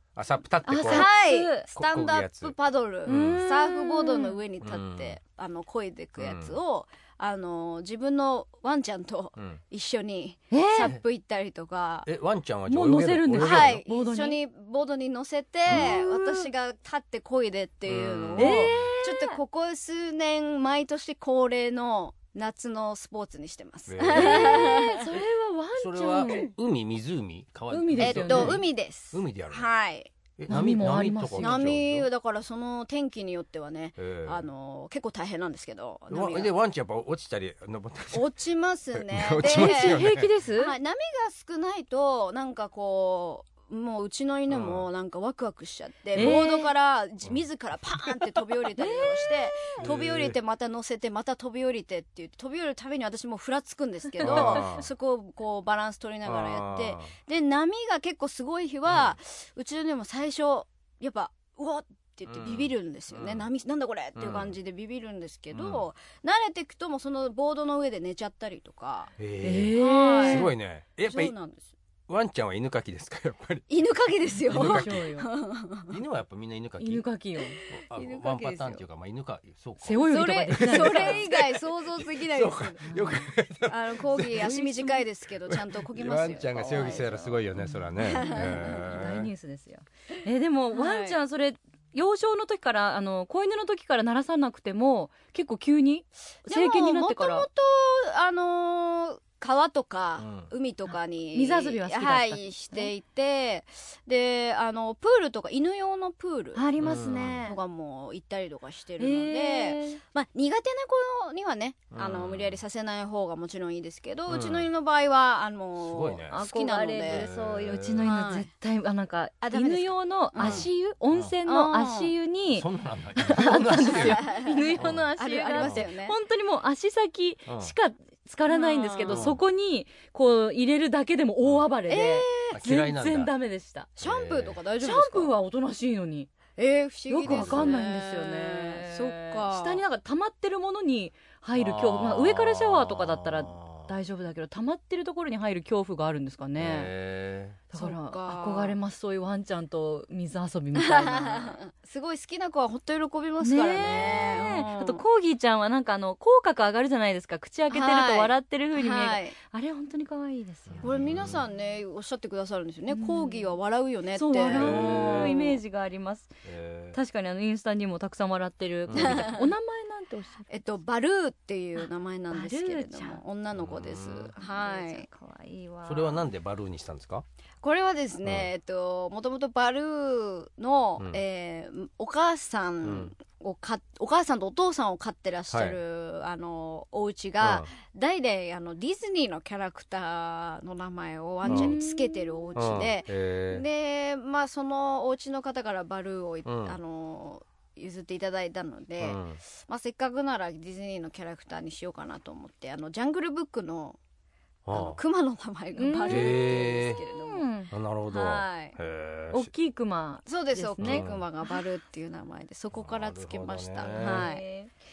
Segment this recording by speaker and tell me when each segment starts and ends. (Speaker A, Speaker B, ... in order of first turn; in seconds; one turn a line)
Speaker A: 0.2-1.1
Speaker B: 0.7-1.7
Speaker C: 0.8-12.1
Speaker A: 1.7-2.5
Speaker A: 3.1-3.4
Speaker B: 3.1-4.4
Speaker A: 4.6-5.2
Speaker A: 6.2-6.6
Speaker B: 10.5-10.9
Speaker A: 12.1-13.8
Speaker B: 12.7-14.4
Speaker C: 13.4-25.1
Speaker A: 15.7-15.9
Speaker B: 15.7-16.5
Speaker A: 17.9-18.9
Speaker B: 18.4-19.4
Speaker A: 23.9-24.8
Speaker B: 24.1-26.5
Speaker A: 25.8-29.7
Speaker B: 27.7-28.6
Speaker C: 28.0-30.1
Speaker A: 30.4-32.1
Speaker B: 30.5-31.7
Speaker C: 31.4-36.5
Speaker A: 34.0-34.5
Speaker A: 36.1-38.3
Speaker C: 38.1-40.0
Speaker A: 38.9-40.3
Speaker B: 39.5-40.7
Speaker C: 40.6-69.1
Speaker A: 44.5-44.9
Speaker A: 46.1-46.4
Speaker B: 46.1-46.7
Speaker B: 48.8-49.8
Speaker A: 49.8-50.4
Speaker B: 54.2-54.8
Speaker A: 54.2-54.9
Speaker A: 56.2-57.1
Speaker A: 58.9-59.2
Speaker A: 62.3-63.5
Speaker A: 64.2-64.6
Speaker A: 65.5-65.8
Speaker A: 69.2-71.3
Speaker B: 69.4-70.5
Speaker C: 69.8-70.5
Speaker C: 71.0-71.8
Speaker A: 72.1-73.7
Speaker C: 73.7-76.0
Speaker A: 74.4-75.0
Speaker B: 74.4-75.3
Speaker A: 75.9-77.0
Speaker B: 76.8-77.6
Speaker C: 77.6-78.8
Speaker A: 77.7-84.7
Speaker B: 79.8-81.2
Speaker C: 80.1-83.0
Speaker B: 82.9-83.2
Speaker C: 83.7-87.3
Speaker B: 84.4-85.0
Speaker A: 85.5-89.3
Speaker B: 86.7-97.5
Speaker C: 88.0-89.0
Speaker C: 90.7-91.2
Speaker C: 96.5-117.3
Speaker A: 100.2-100.5
Speaker B: 100.9-102.9
Speaker B: 106.5-107.6
Speaker A: 106.8-107.4
Speaker B: 109.0-110.0
Speaker A: 111.9-112.6
Speaker A: 114.3-114.7
Speaker A: 115.8-116.4
Speaker B: 116.3-133.9
Speaker A: 117.1-118.1
Speaker C: 118.0-118.5
Speaker C: 119.4-120.7
Speaker A: 120.4-121.3
Speaker C: 121.5-122.1
Speaker A: 122.5-124.2
Speaker C: 123.9-126.2
Speaker A: 124.8-125.8
Speaker A: 127.5-127.7
Speaker C: 128.5-129.3
Speaker A: 129.1-129.4
Speaker C: 131.9-132.6
Speaker A: 132.5-133.3
Speaker C: 134.0-135.3
Speaker A: 134.0-134.6
Speaker B: 134.8-136.3
Speaker C: 136.6-139.8
Speaker B: 137.1-146.9
Speaker A: 137.3-137.7
Speaker A: 141.6-143.9
Speaker A: 146.6-147.6
Speaker B: 147.7-151.6
Speaker C: 147.8-148.8
Speaker C: 150.8-155.0
Speaker B: 153.4-161.1
Speaker C: 157.7-159.4
Speaker A: 160.7-161.4
Speaker C: 160.8-165.6
Speaker B: 162.9-163.5
Speaker B: 164.2-166.3
Speaker A: 164.5-165.5
Speaker A: 166.4-167.0
Speaker B: 166.9-170.6
Speaker A: 168.9-169.3
Speaker C: 168.9-169.5
Speaker C: 170.5-175.1
Speaker B: 172.3-173.2
Speaker A: 173.5-174.3
Speaker B: 174.4-176.3
Speaker A: 175.9-177.2
Speaker C: 177.6-204.0
Speaker A: 178.2-178.5
Speaker A: 182.8-183.1
Speaker A: 185.5-185.8
Speaker A: 187.4-187.7
Speaker B: 191.4-192.4
Speaker A: 191.5-191.8
Speaker A: 192.6-193.7
Speaker A: 196.4-196.8
Speaker A: 199.0-199.4
Speaker A: 204.7-205.0
Speaker C: 204.7-207.5
Speaker B: 205.8-206.4
Speaker A: 206.1-207.0
Speaker B: 207.0-207.7
Speaker A: 207.7-209.5
Speaker C: 208.1-208.8
Speaker B: 209.3-211.5
Speaker C: 210.3-214.4
Speaker A: 210.8-211.2
Speaker A: 212.8-214.3
Speaker B: 213.9-214.7